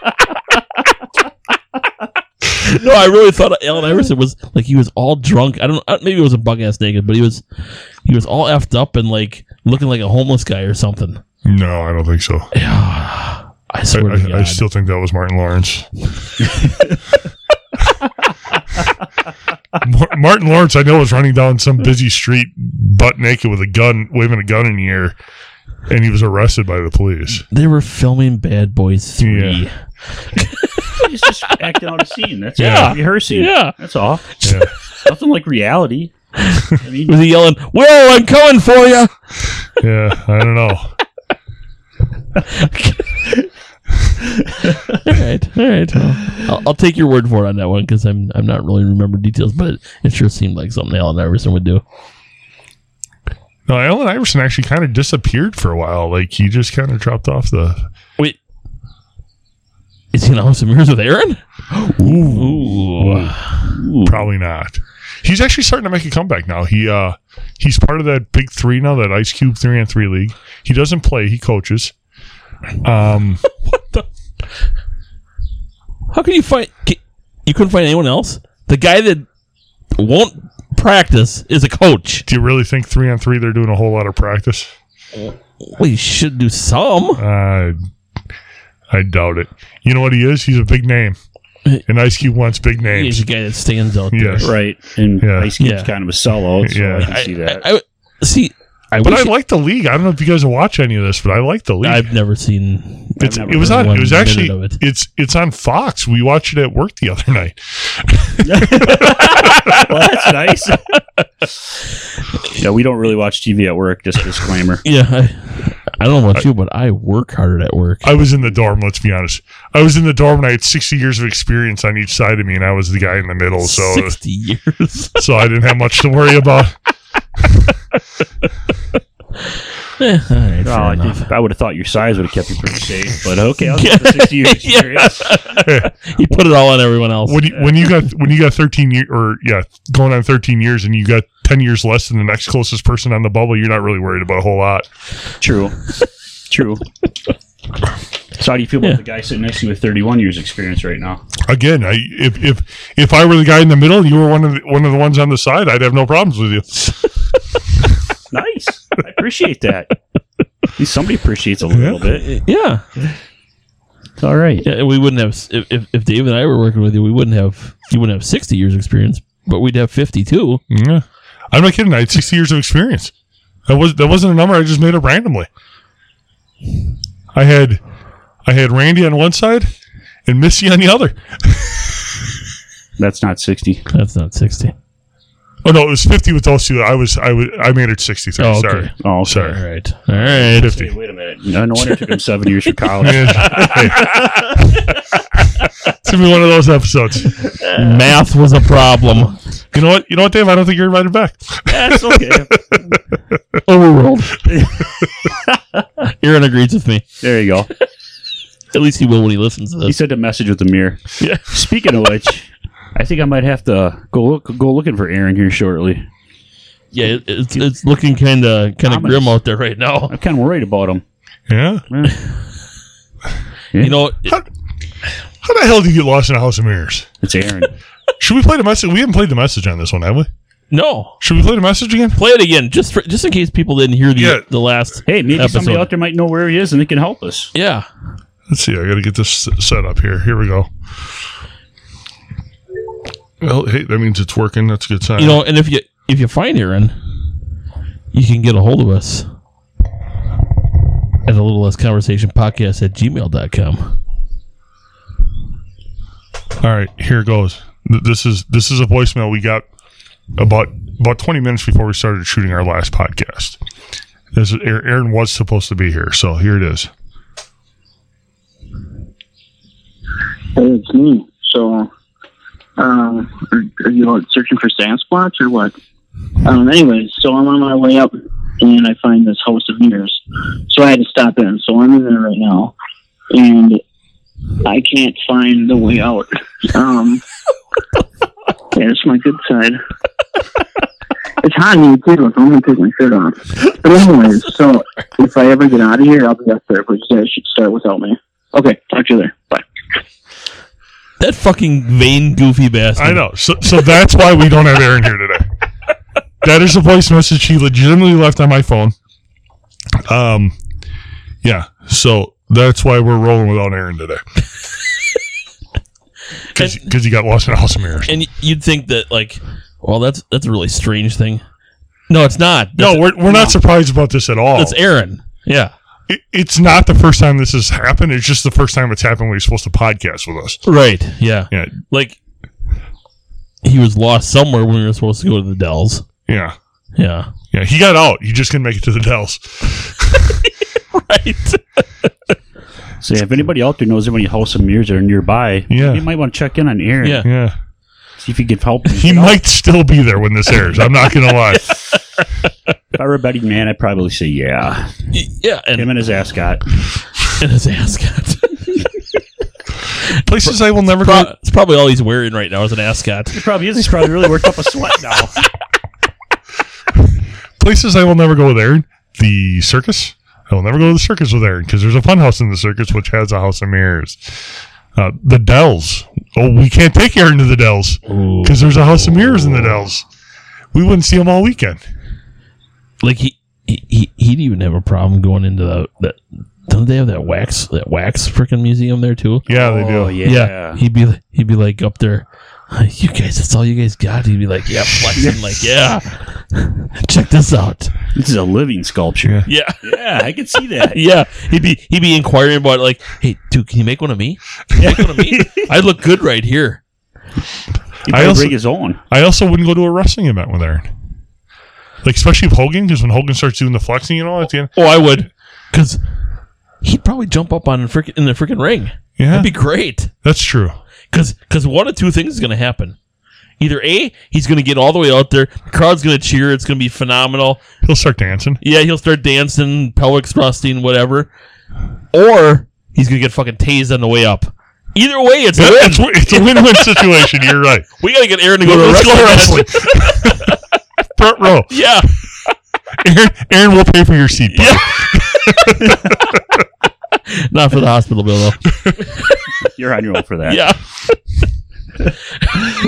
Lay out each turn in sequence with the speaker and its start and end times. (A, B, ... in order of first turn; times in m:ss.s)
0:02.6-0:07.4 A
0:08.0-0:11.2 A
0:11.4-0:12.5 B
0:12.5-0:14.6 A
0:13.9-0:15.9 B
0:19.8-0:25.2 B
0:25.9-0:27.4 B
0:27.5-0:31.0 A
0:29.2-0:29.6 B
0:31.0-0:34.5 C
0:32.6-0:33.0 B
0:32.6-0:33.8 A
0:34.4-0:34.7 B
0:35.0-0:36.1 C
0:36.7-0:37.2 C
0:37.1-0:39.1 A
0:39.8-0:40.9 B
0:42.4-0:43.3 A
0:44.9-0:51.8 A
0:53.7-0:57.9 B
1:00.1-1:01.4 A
1:01.8-1:04.3 C
1:02.0-1:02.4 B
1:02.1-1:03.6 A
1:03.0-1:03.3 B
1:04.0-1:11.9 B
1:12.8-1:13.4 B
1:13.6-1:14.0 A
1:16.1-1:19.2 A
1:19.9-1:22.2 A
1:22.3-1:24.7 B
1:25.2-1:27.2 A
1:27.2-1:27.8 B
1:28.9-1:31.2 B
1:31.9-1:33.2 B
1:32.9-1:34.5 A
1:34.1-1:34.5 B
1:34.4-1:37.6 C
1:35.2-1:35.5 B
1:35.6-1:35.9 A
1:36.6-1:37.1 B
1:37.0-1:39.3 A
1:38.9-1:42.1 B
1:41.8-1:44.8 A
1:43.2-1:43.9 C
1:43.2-1:49.3 B
1:48.4-1:51.0 C
1:49.5-1:50.2 A
1:52.5-1:54.8 C
1:54.8-1:58.1 A
1:58.0-2:04.2 B
2:03.6-2:05.2 A
2:05.2-2:06.8 B
2:10.0-2:11.3 A
2:10.6-2:15.3 C
2:13.6-2:17.8 A
2:15.6-2:15.9 B
2:17.2-2:24.8 B
2:25.4-2:25.9 C
2:26.5-2:26.8 C
2:28.4-2:31.2 C
2:31.4-2:37.1 B
2:38.3-2:39.9 C
2:40.8-2:42.3 C
2:41.7-2:42.1 B
2:42.2-2:42.8 A
2:44.2-2:44.6 C
2:44.6-2:50.6 A
2:50.7-2:53.1 B
2:53.7-2:55.5 B
2:57.3-2:57.8 B
2:58.4-2:59.7 B
3:00.2-3:02.2 B
3:03.0-3:03.8 C
3:03.9-3:04.7 A
3:05.6-3:09.6 B
3:08.4-3:10.8 A
3:09.0-3:09.6 C
3:10.1-3:14.5 C
3:10.5-3:10.9 B
3:12.8-3:14.3 A
3:13.0-3:14.6 B
3:16.0-3:17.4 B
3:17.7-3:19.4 A
3:19.7-3:22.9 B
3:21.7-3:23.0 C
3:23.6-3:24.6 A
3:24.5-3:24.8 C
3:26.0-3:27.0 A
3:27.2-3:27.7 C
3:28.7-3:30.0 A
3:29.8-3:36.0 C
3:31.2-3:31.4 A
3:36.9-3:40.1 A
3:38.8-3:39.4 C
3:40.1-3:41.0 C
3:41.5-3:41.8 B
3:41.9-3:42.2 C
3:43.8-3:44.4 A
3:45.4-3:47.1 B
3:47.2-3:47.7 C
3:48.2-3:50.3 B
3:50.7-3:51.2 A
3:51.2-3:52.2 B
3:52.2-3:55.9 A
3:54.2-3:54.4 B
3:55.0-3:57.5 C
3:57.5-3:57.8 A
3:58.5-4:00.7 B
4:03.4-4:05.4 B
4:05.2-4:06.9 A
4:08.1-4:09.3 A
4:11.2-4:14.0 A
4:16.6-4:19.6 B
4:20.4-4:23.6 B
4:24.3-4:26.9 B
4:30.6-4:31.9 D
4:32.8-4:35.7 D
4:36.4-4:42.7 D
4:43.3-4:43.8 D
4:44.6-4:47.2 D
4:48.7-4:49.8 D
4:51.4-4:59.6 D
5:01.2-5:03.2 A
5:03.0-5:05.4 B
5:06.4-5:09.0 B
5:10.0-5:10.6 B
5:11.4-5:14.2 B
5:16.5-5:18.2 B
5:16.6-5:16.9 A
5:18.1-5:21.4 A
5:22.1-5:23.6 A
5:22.8-5:24.8 B
5:24.5-5:25.7 A
5:26.1-5:30.6 B
5:30.6-5:32.2 A
5:31.5-5:31.8 B
5:33.6-5:36.0 A
5:36.3-5:36.6 B
5:37.0-5:37.3 A
5:37.5-5:40.3 B
5:40.9-5:42.1 A
5:43.0-5:47.2 C
5:45.7-5:46.0 B
5:47.0-5:47.3 A
5:47.2-5:47.6 B
5:48.2-5:49.4 C
5:48.9-5:51.7 B
5:51.3-5:52.2 A
5:52.9-5:54.9 C
5:55.1-5:55.9 A
5:55.8-5:56.6 C
5:57.3-5:58.9 A
6:00.2-6:01.3 B
6:00.4-6:03.4 A
6:03.3-6:05.4 C
6:07.6-6:14.4 B
6:14.9-6:20.0 B
6:18.1-6:19.8 A
6:20.7-6:21.8 B
6:23.0-6:29.4 A
6:29.5-6:30.2 B
6:29.5-6:30.8 C
6:30.2-6:37.9 A
6:38.1-6:41.0 C
6:39.5-6:46.8 A
6:44.8-6:45.7 C
6:48.1-6:49.0 C
6:48.1-6:50.9 B
6:52.0-6:54.7 B
6:54.8-6:56.0 A
6:56.8-7:00.1 A
6:59.2-6:59.5 B
7:00.2-7:00.8 B
7:01.1-7:03.0 A
7:03.6-7:07.6 A
7:07.8-7:08.6 B
7:08.6-7:11.3 A
7:12.1-7:17.4 A
7:15.5-7:17.9 B
7:18.0-7:20.6 A
7:18.6-7:20.6 B
7:21.2-7:21.8 B
7:21.7-7:22.1 A
7:23.0-7:26.1 B
7:24.5-7:26.1 A
7:27.3-7:29.0 A
7:29.6-7:30.7 C
7:30.4-7:30.8 A